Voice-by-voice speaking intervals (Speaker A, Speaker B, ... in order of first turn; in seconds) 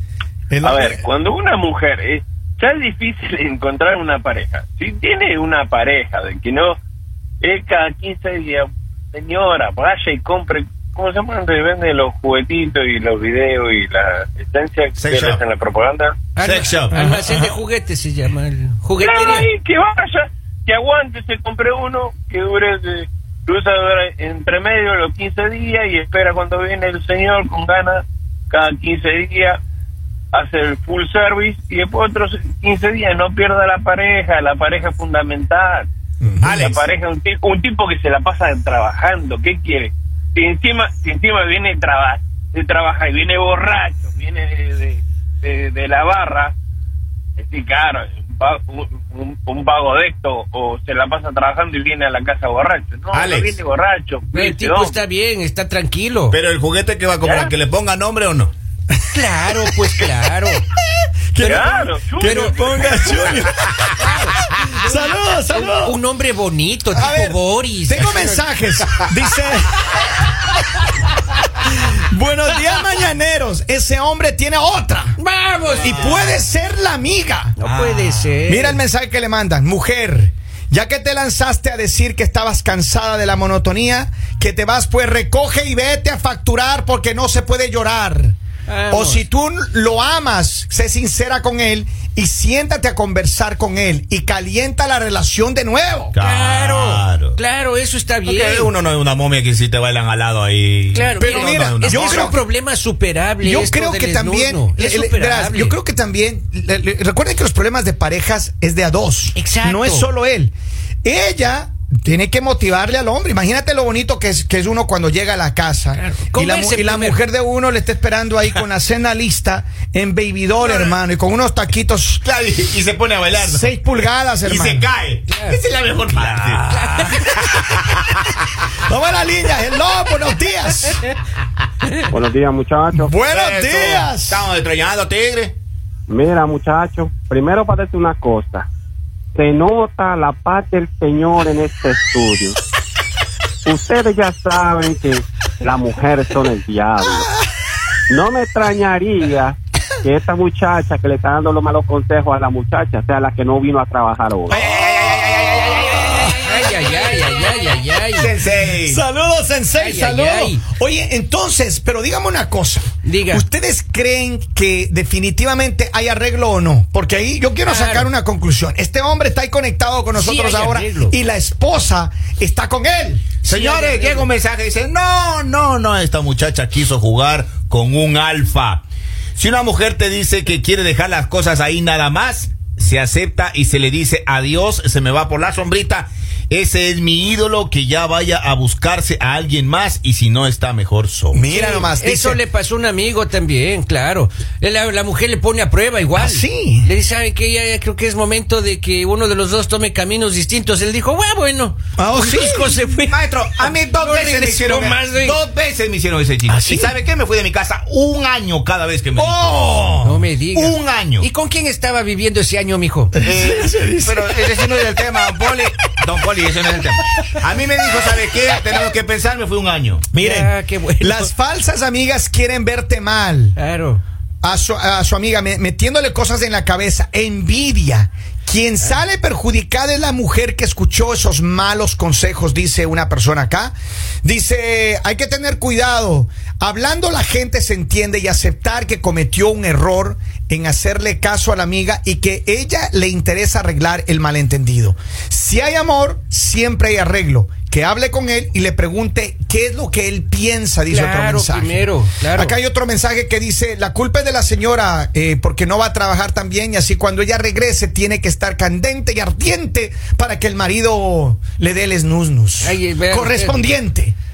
Speaker A: 0.5-1.0, 36.2-36.6, 61.3-63.9, 64.4-66.0, 66.9-69.9, 71.7-75.2, 75.8-77.6, 78.5-88.3, 88.9-96.1, 101.2-102.3, 103.4-122.2, 123.3-124.9, 126.1-127.3, 128.8-131.1, 132.9-134.4, 147.0-147.4, 158.8-173.3, 191.3-192.4, 196.2-196.9, 202.0-202.7, 206.5-206.9, 209.2-210.2, 213.1-214.6, 220.1-223.6, 224.4-264.1
Speaker B: 0.6-6.8, 7.4-16.2, 19.0-29.6, 30.3-35.9, 36.6-46.5, 47.4-55.0, 57.2-57.5, 61.4-63.3
Speaker C: 15.0-15.4, 16.4-17.6, 36.4-36.8, 53.1-53.6, 56.3-58.5, 75.7-76.4, 77.6-78.5, 96.1-97.4, 98.2-102.3, 120.6-120.9, 122.2-128.0, 133.3-135.5, 154.5-156.7, 158.1-159.0, 173.4-178.8, 179.4-191.4, 203.1-209.8, 210.5-211.3, 213.2-220.1
Speaker D: 16.4-19.5, 54.3-56.4, 59.1-60.6, 61.4-61.7, 62.2-62.5, 64.0-64.3, 64.9-68.4, 75.2-76.1, 77.6-78.8, 88.7-89.2, 96.2-98.7, 100.9-105.8, 109.3-110.1, 116.0-117.2, 125.3-125.6, 126.7-127.2, 156.2-158.3, 159.7-160.6, 163.0-163.4, 167.7-168.1, 170.1-171.2, 173.4-174.3, 191.5-205.4, 210.0-213.1, 220.2-221.3, 223.6-224.0, 250.9-252.6, 262.6-263.6
Speaker E: 132.1-133.1, 136.1-138.7, 139.3-142.6, 143.6-147.3, 148.1-154.6